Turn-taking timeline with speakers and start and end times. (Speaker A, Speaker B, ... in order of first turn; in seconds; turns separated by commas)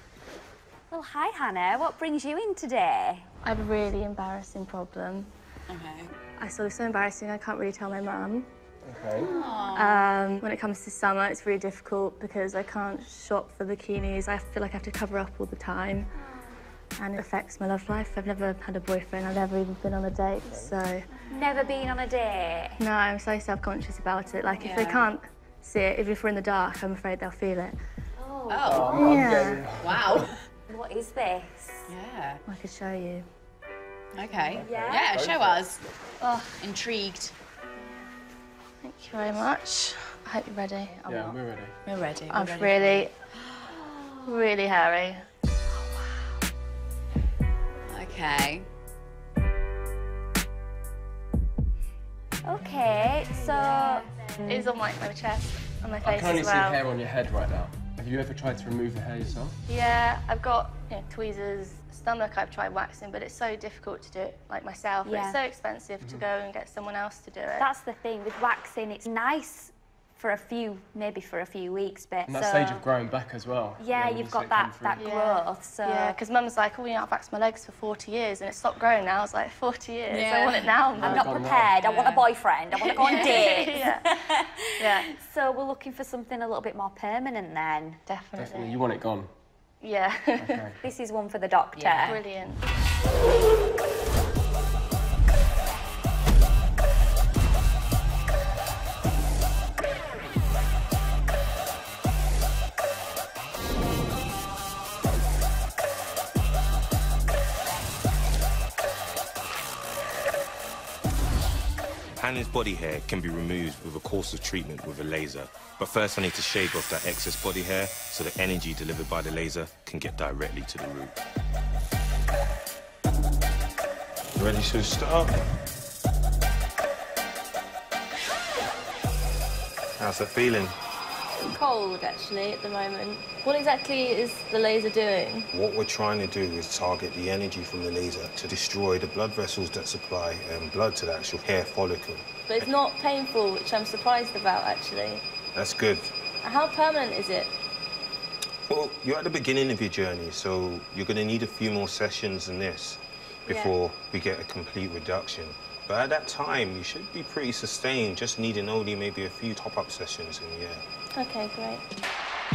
Speaker A: 0.9-3.3, Speaker B: 3.4-5.3, Speaker C: 5.7-6.1, Speaker B: 6.4-8.5, Speaker D: 8.8-9.4, Speaker C: 9.2-10.1, Speaker B: 9.7-16.1, Speaker B: 17.0-21.1, Speaker D: 20.5-20.7, Speaker A: 21.3-22.8, Speaker B: 22.8-27.8, Speaker A: 24.2-24.8, Speaker C: 24.6-25.1, Speaker A: 28.2-29.3, Speaker C: 28.5-29.0, Speaker D: 28.6-30.3, Speaker B: 28.9-29.6, Speaker C: 29.8-30.4, Speaker A: 30.7-31.9, Speaker C: 31.9-32.4, Speaker B: 32.5-33.2, Speaker C: 34.1-35.8, Speaker D: 34.5-35.7, Speaker A: 34.5-35.1, Speaker B: 36.2-36.6, Speaker C: 36.6-37.3, Speaker B: 38.8-41.4, Speaker D: 41.0-41.8, Speaker C: 41.9-43.0, Speaker B: 42.3-43.1, Speaker A: 43.8-44.5, Speaker B: 44.2-45.2, Speaker C: 47.9-48.6, Speaker A: 52.4-54.7, Speaker B: 54.5-56.8, Speaker D: 56.0-59.5, Speaker B: 59.7-67.7, Speaker A: 65.0-65.4, Speaker D: 66.0-66.2, Speaker A: 67.5-72.9, Speaker D: 72.3-75.1, Speaker A: 73.8-76.2, Speaker B: 75.0-81.3, Speaker C: 80.1-80.8, Speaker D: 80.9-81.8, Speaker A: 81.0-88.0, Speaker C: 81.8-82.2, Speaker C: 83.0-83.5, Speaker B: 83.0-84.1, Speaker B: 84.8-85.1, Speaker B: 88.1-88.8, Speaker D: 88.3-89.3, Speaker B: 89.8-90.6, Speaker D: 90.4-90.8, Speaker A: 90.8-92.2, Speaker C: 91.8-92.2, Speaker B: 92.0-92.6, Speaker E: 112.2-121.2, Speaker E: 124.3-125.4, Speaker E: 130.0-130.8, Speaker B: 131.5-135.5, Speaker E: 135.5-142.7, Speaker B: 142.5-145.2, Speaker E: 145.5-146.1, Speaker B: 146.4-147.5, Speaker E: 148.7-160.8, Speaker B: 161.2-161.8